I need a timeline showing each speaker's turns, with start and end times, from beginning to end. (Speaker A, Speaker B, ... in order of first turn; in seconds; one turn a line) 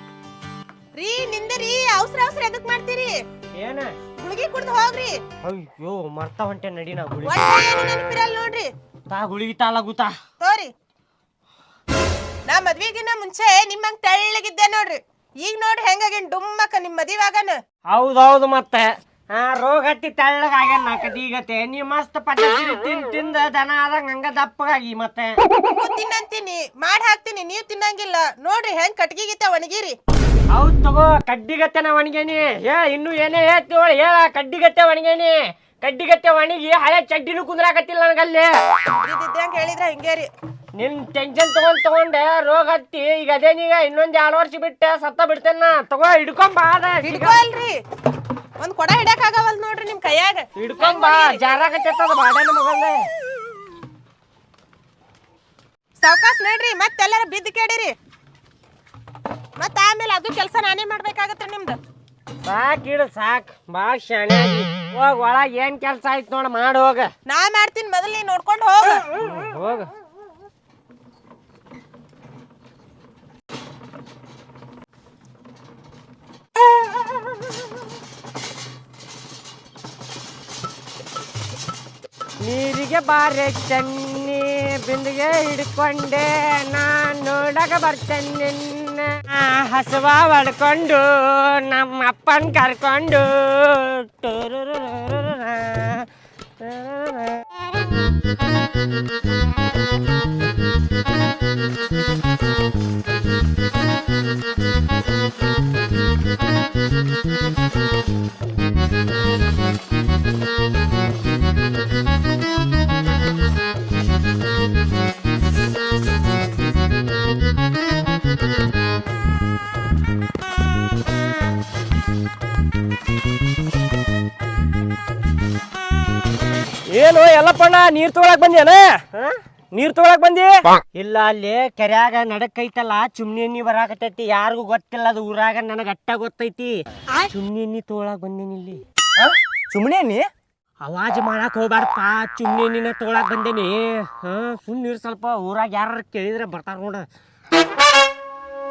Speaker A: 1.0-3.1
Speaker B: 3.6-3.9
Speaker A: 4.2-5.2
Speaker B: 5.4-7.4
Speaker A: 7.2-8.7
Speaker B: 9.1-10.1
Speaker A: 10.4-10.7
Speaker A: 12.5-17.6
Speaker B: 17.9-25.4
Speaker A: 25.8-30.0
Speaker B: 30.5-38.5
Speaker A: 39.0-40.3
Speaker B: 40.8-47.4
Speaker A: 47.0-47.7
Speaker A: 48.6-51.4
Speaker B: 50.6-53.1
Speaker A: 56.0-57.9
Speaker A: 59.6-61.8
Speaker B: 62.5-67.1
Speaker A: 67.3-69.1
Speaker B: 69.2-69.9
Speaker B: 82.4-96.1
Speaker B: 96.6-97.5
Speaker B: 126.9-140.3
Speaker B: 140.8-147.1